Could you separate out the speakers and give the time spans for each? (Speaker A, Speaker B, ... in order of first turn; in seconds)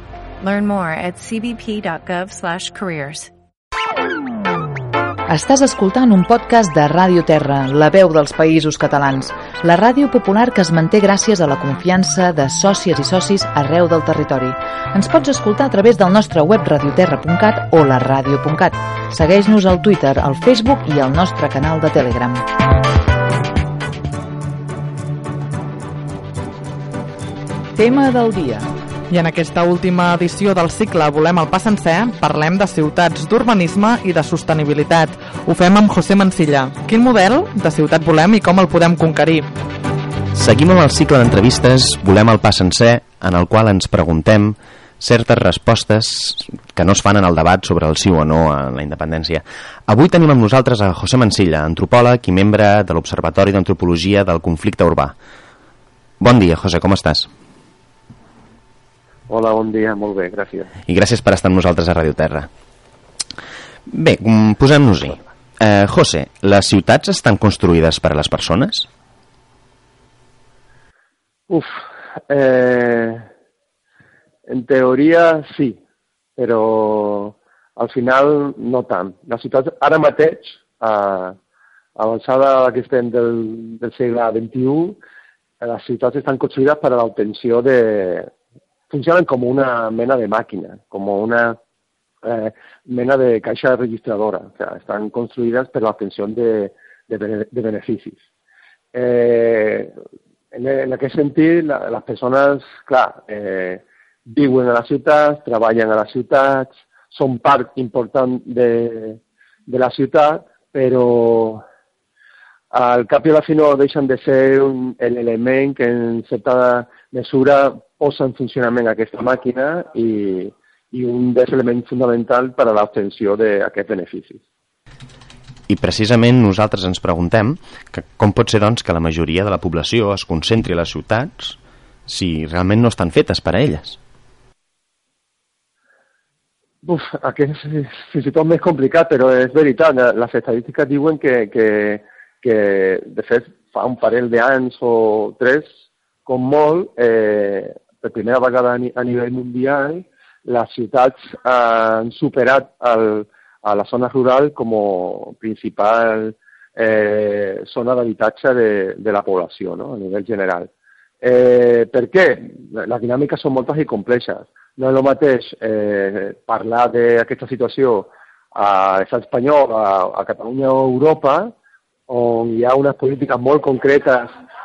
Speaker A: 0.4-3.3
Speaker B: 5.3-22.5, 27.7-28.7
Speaker C: 29.1-39.5
Speaker D: 40.3-55.1, 56.2-57.3, 60.9-62.5, 63.9-68.9, 125.7-134.0
Speaker E: 59.3-60.7, 71.5-73.3, 74.5-75.8, 76.3-81.4, 82.0-85.0, 85.6-88.3, 88.9-91.6, 92.2-98.2, 98.9-99.9, 100.5-111.6, 112.7-124.4, 136.8-160.7, 161.2-171.5, 172.1-174.3